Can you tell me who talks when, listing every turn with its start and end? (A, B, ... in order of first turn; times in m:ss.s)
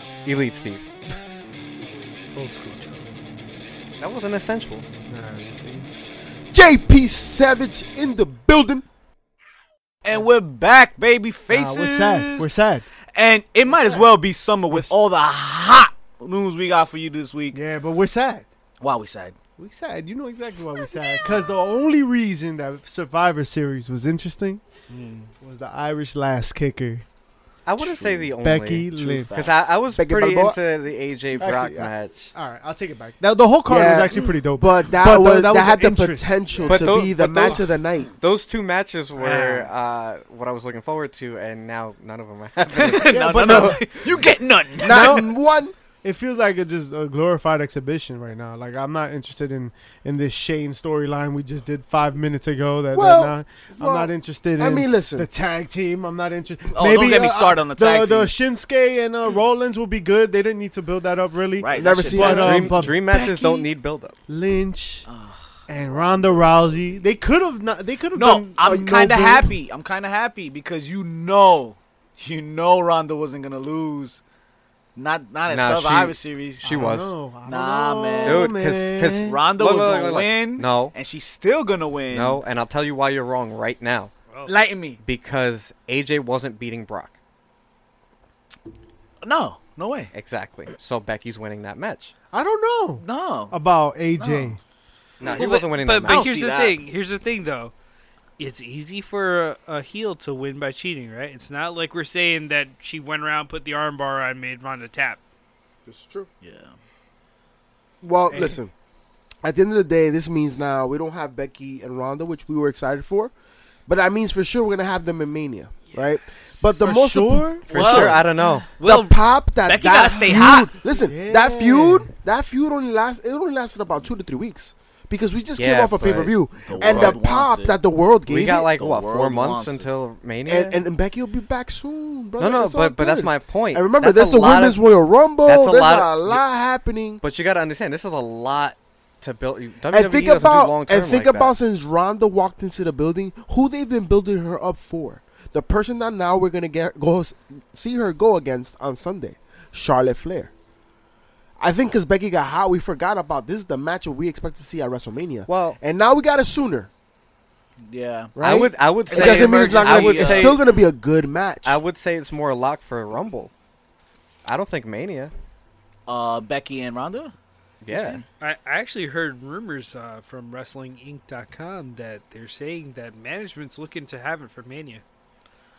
0:00.2-0:00.8 A
0:02.3-0:03.1 B
0:04.0-0:04.8 A
0:05.1-0:05.9 B
0:06.5-0:08.8 C
0:10.0-0:12.5 D
0:11.5-0:12.8 B
0:13.1-0:17.6 D
0:13.7-0:14.1 B
0:14.7-0:14.9 B
0:17.5-0:18.4 B
0:18.8-0:19.4 D
0:19.6-0:24.6 B
0:24.9-0:25.3 D
0:25.4-0:27.0 B
0:27.6-0:32.3 A
0:27.8-0:28.3 D
0:28.4-0:29.4 B
0:28.9-0:29.7 D
0:29.9-0:30.6 C
0:31.4-0:31.9 C
0:31.4-0:36.3 B
0:33.7-0:38.1 C
0:36.7-0:43.7 A
0:39.2-0:39.7 B
0:42.7-0:45.2 D
0:43.1-0:43.8 B
0:43.5-0:43.8 C
0:44.8-0:45.7 C
0:44.8-0:45.3 B
0:46.0-1:03.6 B
0:52.9-0:55.3 C
0:56.7-0:58.3 D
1:01.6-1:02.7 D
1:01.7-1:02.7 C
1:02.2-1:04.2 A
1:04.3-1:05.0 B
1:05.1-1:05.4 D
1:05.7-1:09.5 B
1:08.1-1:14.2 D
1:15.0-1:16.6 D
1:15.5-1:17.1 A
1:16.6-1:19.4 B
1:17.5-1:18.5 D
1:18.2-1:20.9 A
1:19.2-1:22.4 D
1:22.1-1:24.1 A
1:24.5-1:25.0 D
1:25.0-1:27.2 A
1:29.2-1:30.1 D
1:30.1-1:32.1 A
1:32.3-1:34.6 B
1:33.0-1:33.5 D
1:34.2-1:34.6 D
1:35.2-1:36.4 A
1:35.2-1:36.8 D
1:35.3-1:37.7 E
1:38.4-1:45.2 E
1:45.8-1:46.3 C
1:46.4-1:46.7 D
1:48.0-1:48.7 C
1:48.3-1:48.6 B
1:49.4-1:53.3 C
1:53.9-1:57.6 C
1:56.8-1:57.7 B
1:57.7-1:58.7 A
1:57.7-1:58.4 D
1:57.9-1:59.1 E
1:58.8-2:08.7 C
1:59.6-2:00.7 D
2:00.8-2:02.1 B
2:05.6-2:07.2 A
2:06.6-2:07.8 D
2:08.3-2:10.8 A
2:08.7-2:09.9 D
2:10.4-2:17.2 C
2:12.4-2:14.8 A
2:15.4-2:16.4 A
2:17.2-2:21.5 A
2:19.9-2:30.5 C
2:31.6-2:36.9 C
2:35.5-2:35.8 A
2:37.8-2:38.3 D
2:38.4-2:41.8 C
2:38.4-2:40.6 A
2:39.0-2:40.6 D
2:41.6-2:43.5 A
2:44.4-2:45.3 A
2:46.1-2:47.3 D
2:47.8-2:48.2 A
2:47.9-2:48.2 D
2:48.4-2:55.0 E